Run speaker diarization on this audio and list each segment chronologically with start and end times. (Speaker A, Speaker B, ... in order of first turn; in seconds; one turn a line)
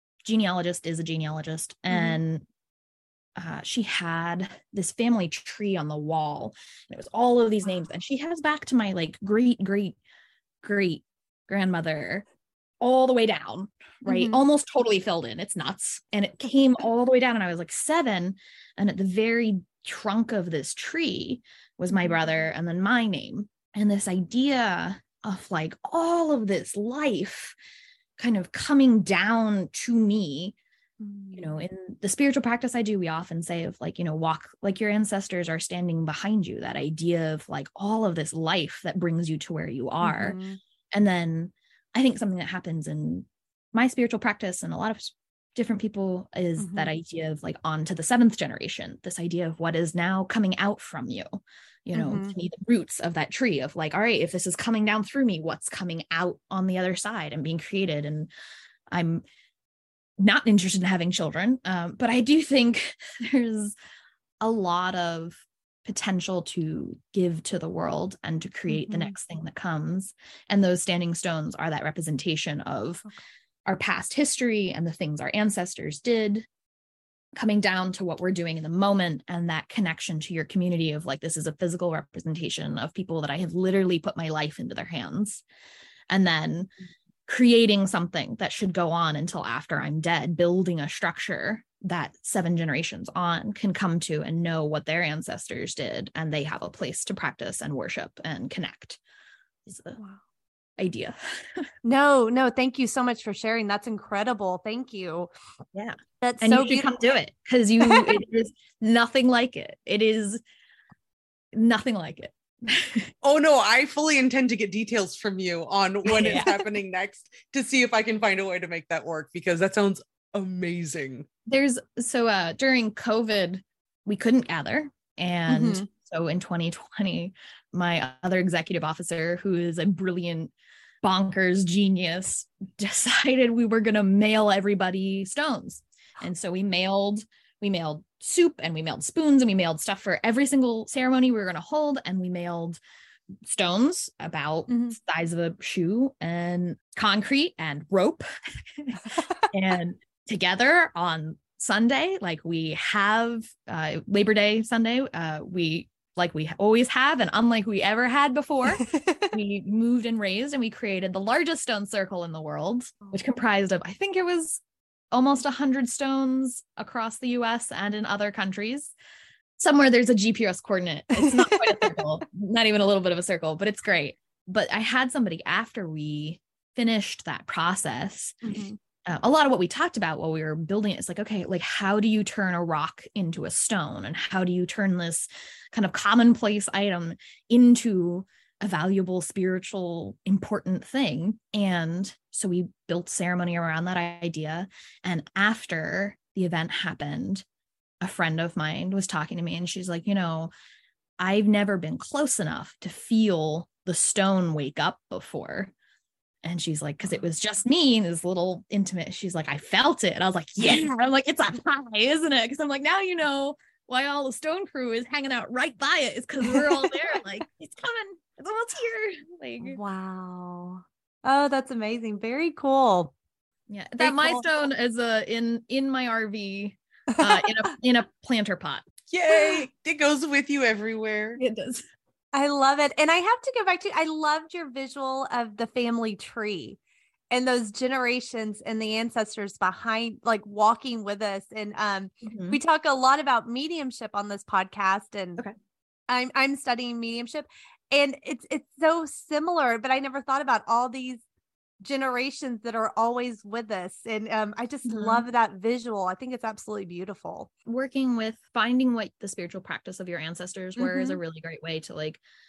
Speaker A: 0.2-2.4
Speaker B: 1.9-2.2
Speaker A: 3.4-10.0
Speaker A: 10.6-12.2
Speaker A: 12.8-27.5
Speaker B: 14.1-14.4
Speaker B: 21.9-22.2
Speaker A: 28.2-30.6
Speaker B: 31.0-31.6
Speaker A: 31.3-40.4
Speaker B: 40.0-40.6
Speaker A: 40.9-58.3
Speaker B: 46.6-46.9
Speaker B: 51.9-52.3
Speaker A: 58.9-59.2
Speaker A: 60.2-63.8
Speaker A: 64.4-73.0
Speaker B: 68.7-69.2
Speaker A: 73.7-76.5
Speaker A: 77.4-85.4
Speaker A: 86.1-86.7
Speaker A: 87.3-99.0
Speaker A: 99.7-100.0
Speaker B: 100.0-100.2
Speaker A: 100.8-101.7
Speaker B: 101.8-105.3
Speaker A: 105.7-110.4
Speaker B: 106.2-106.9
Speaker B: 107.8-108.1
Speaker A: 111.5-113.1
Speaker C: 113.2-121.2
Speaker A: 116.1-116.5
Speaker A: 121.5-142.8
Speaker B: 125.5-125.9
Speaker A: 143.4-164.6
Speaker B: 144.7-145.0
Speaker B: 149.0-149.5
Speaker B: 158.8-159.3
Speaker A: 165.1-168.9
Speaker A: 169.6-197.4
Speaker B: 171.1-171.9
Speaker B: 178.4-178.8
Speaker A: 198.0-200.5
Speaker A: 201.2-205.7
Speaker A: 206.4-219.8
Speaker B: 216.4-217.1
Speaker B: 219.6-223.1
Speaker A: 223.7-228.8
Speaker B: 224.0-224.4
Speaker B: 227.1-227.5
Speaker C: 229.1-231.4
Speaker A: 231.4-231.8
Speaker B: 232.3-236.8
Speaker B: 237.3-245.4
Speaker A: 242.2-242.6
Speaker B: 246.1-251.2
Speaker B: 251.8-257.5
Speaker A: 254.8-255.2
Speaker A: 257.6-262.2
Speaker B: 260.8-261.2